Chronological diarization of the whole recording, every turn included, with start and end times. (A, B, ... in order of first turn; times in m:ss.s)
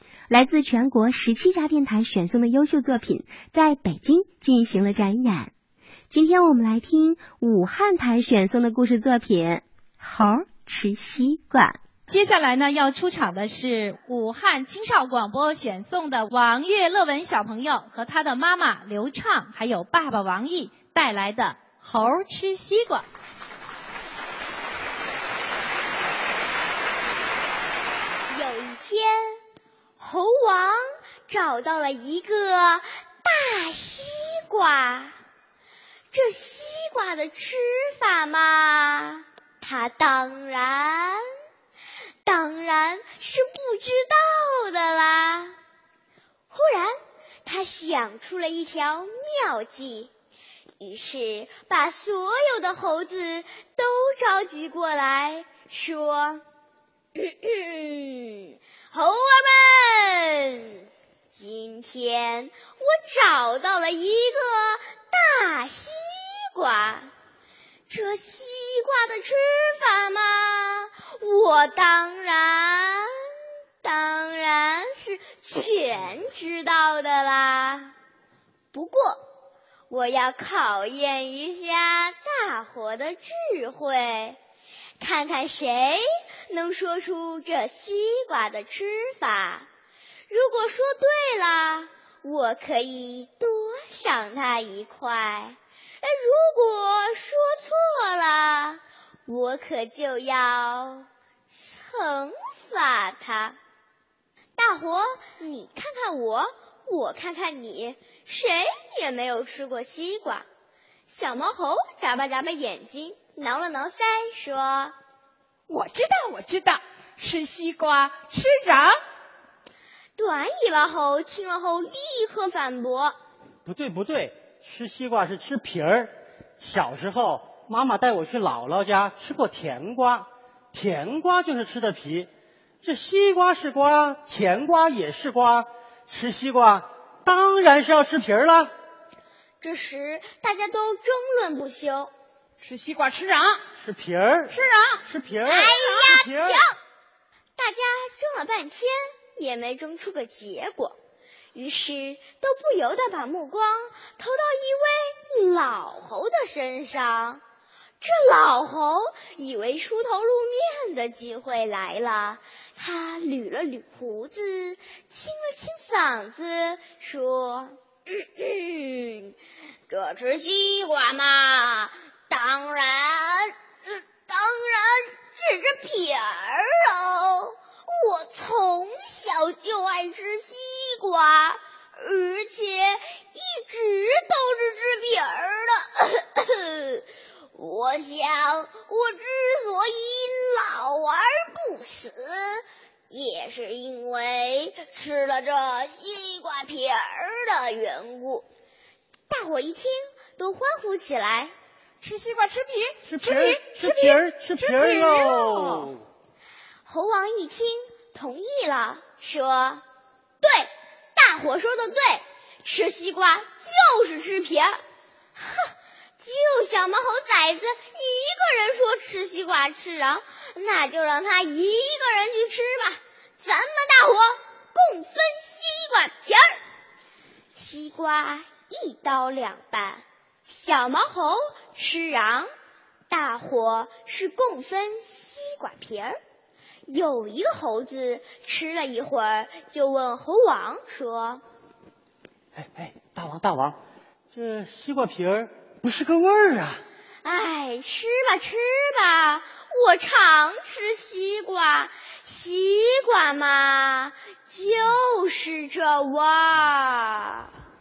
0:00.3-0:05.5 A
0:06.1-0:09.6 A
0:10.2-0:10.4 B
0:10.4-0:11.8 A
0:12.1-0:23.1 C
0:28.3-0:29.4 D
0:30.0-0:35.2 D
0:36.1-0:41.2 D
0:42.2-0:45.6 D
0:46.5-0:46.9 D
0:47.4-0:50.1 D
0:50.8-0:56.4 D
0:57.2-1:07.1 D
1:07.9-1:13.1 D
1:13.8-1:17.9 D
1:18.7-1:19.2 D
1:19.9-1:24.4 D
1:25.0-1:29.7 D
1:30.3-1:43.6 D
1:44.6-1:50.5 D
1:51.1-1:55.0 D
1:55.7-1:59.0 E
2:00.2-2:03.2 D
2:03.7-2:12.3 B
2:12.8-2:18.7 B
2:19.6-2:22.1 D
2:22.6-2:23.6 E
2:23.8-2:26.6 B
2:24.5-2:25.1 E
2:25.4-2:26.7 D
2:27.6-2:31.0 D
2:31.5-2:37.4 D
2:38.0-2:49.4 D
2:49.9-3:18.5 D
3:19.3-3:21.5 D
3:22.0-3:26.0 E
3:23.1-3:25.9 B
3:26.8-3:29.8 D
3:30.4-3:34.8 D
3:35.4-3:46.6 D
3:47.6-3:52.5 D
3:53.1-3:56.2 D
3:56.9-4:01.4 D
4:02.6-4:03.8 B
4:04.3-4:06.8 B
4:07.2-4:17.5 D